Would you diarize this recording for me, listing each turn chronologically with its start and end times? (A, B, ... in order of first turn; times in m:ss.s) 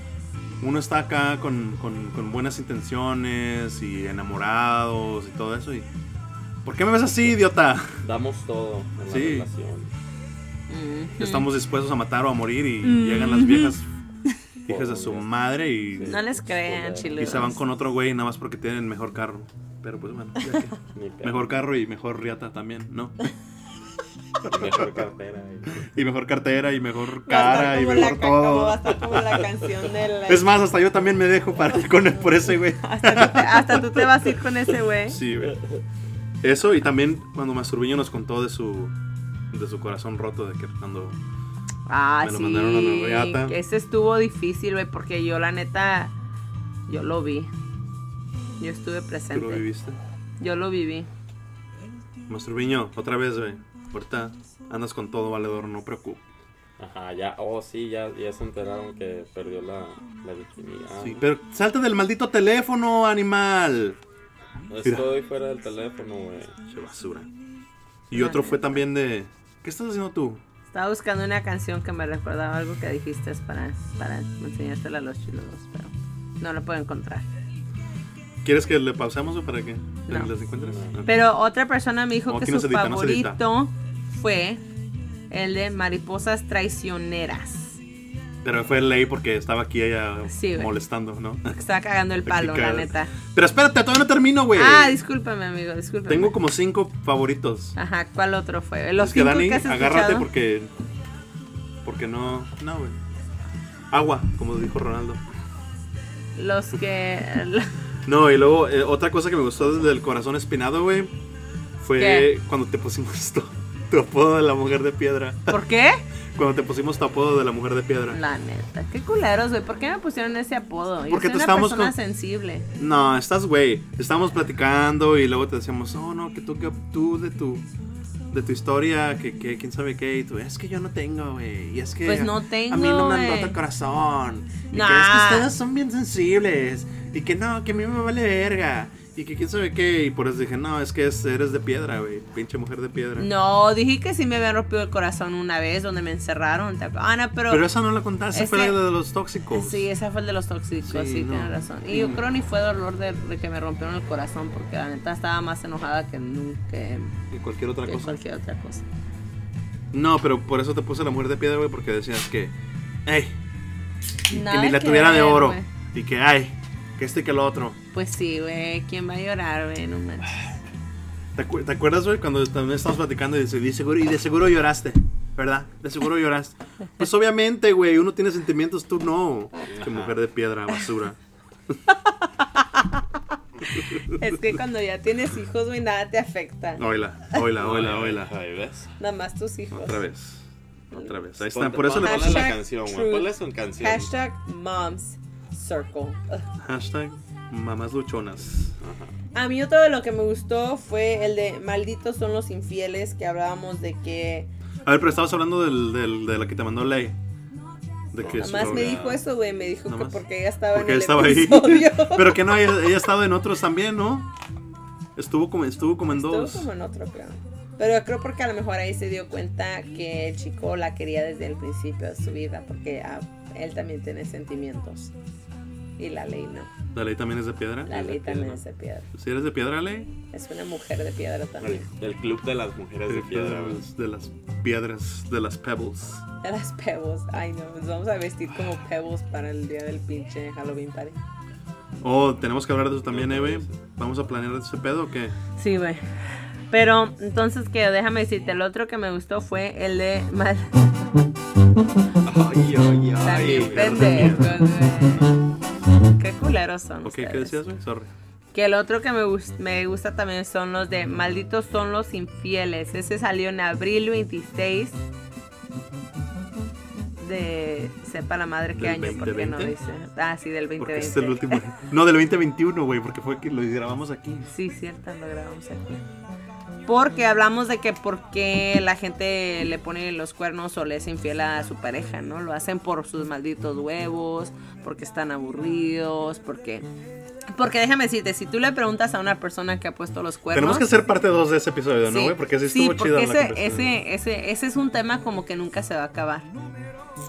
0:00.6-0:05.9 A
0:06.6-0:08.0 A
0:08.0-0:09.9 B
0:09.1-0:09.5 A
0:10.7-0:11.5 C
0:11.2-0:13.9 A
0:12.8-0:13.8 C
0:14.7-0:15.3 B
0:14.7-0:16.2 A
0:15.9-0:17.4 B
0:16.0-0:17.6 C
0:17.2-0:23.3 A
0:20.9-0:21.5 B
0:24.4-0:25.0 A
0:24.4-0:25.9 B
0:25.7-0:29.4 A
0:27.3-0:30.5 C
0:30.3-0:34.1 A
0:32.7-0:35.2 C
0:35.1-0:35.6 A
0:36.4-0:38.9 A
0:39.5-0:41.2 A
0:41.9-0:46.1 C
0:42.2-0:43.6 A
0:46.9-0:47.5 C
0:48.6-0:49.6 C
0:49.3-0:50.0 A
0:50.4-0:51.1 C
0:52.3-0:56.2 A
0:56.8-1:01.2 B
1:01.0-1:04.0 A
1:04.7-1:06.6 B
1:06.7-1:07.3 A
1:08.1-1:10.4 A
1:08.1-1:08.8 C
1:10.7-1:17.3 C
1:18.4-1:21.1 A
1:20.6-1:20.9 B
1:21.0-1:24.6 C
1:22.3-1:23.4 A
1:25.3-1:27.8 C
1:28.4-1:31.5 A
1:30.2-1:30.7 C
1:31.4-1:33.1 C
1:32.2-1:35.0 A
1:34.6-1:36.4 C
1:36.1-1:37.8 A
1:37.8-1:40.3 C
1:39.0-1:40.7 A
1:41.8-1:43.0 A
1:43.9-1:45.2 A
1:46.4-1:47.7 C
1:48.1-1:51.1 A
1:51.8-1:55.6 A
1:52.0-1:52.3 C
1:55.5-1:56.0 C
1:56.4-1:58.2 A
1:58.1-2:02.7 C
2:01.1-2:01.9 A
2:02.8-2:07.6 A
2:08.3-2:23.3 A
2:12.0-2:13.6 C
2:14.7-2:15.5 C
2:23.2-2:27.6 C
2:27.5-2:29.9 A
2:28.3-2:28.8 C
2:29.5-2:37.1 C
2:30.9-2:32.2 A
2:37.3-2:38.2 A
2:37.8-2:38.8 C
2:39.9-2:42.5 A
2:43.1-2:43.4 A
2:44.3-2:45.7 C
2:44.3-2:47.8 A
2:47.9-2:50.4 C
2:51.4-3:01.2 A
2:59.7-3:00.1 B
3:02.6-3:03.0 C
3:03.7-3:06.8 C
3:06.8-3:08.3 A
3:07.6-3:08.9 B
3:09.0-3:10.0 C
3:09.7-3:12.5 A
3:11.5-3:14.1 B
3:12.0-3:16.4 C
3:16.6-3:18.7 A
3:18.8-3:19.1 B
3:19.4-3:24.5 C
3:24.9-3:27.2 A
3:28.1-3:29.0 A
3:28.2-3:29.2 B
3:28.4-3:32.5 C
3:29.9-3:34.3 A
3:35.2-3:36.7 A
3:36.1-3:45.1 C
3:46.0-3:46.7 C
3:46.9-3:48.4 A
3:47.9-3:49.1 C
3:49.1-3:50.1 A
3:50.3-3:51.9 C
3:51.6-3:53.8 B
3:53.1-3:56.2 A
3:56.4-4:01.2 C
4:02.0-4:05.4 A
4:03.1-4:03.8 B
4:05.6-4:11.1 C
4:12.2-4:14.4 B
4:13.2-4:15.3 C
4:13.3-4:14.5 A
4:16.2-4:17.6 C
4:17.0-4:18.1 A
4:18.5-4:25.0 C
4:27.2-4:31.6 C
4:28.7-4:29.7 A
4:30.8-4:34.5 A
4:34.5-4:36.0 C
4:36.9-4:46.8 C
4:47.5-4:50.9 C
4:50.5-4:54.0 A
4:52.1-4:56.4 C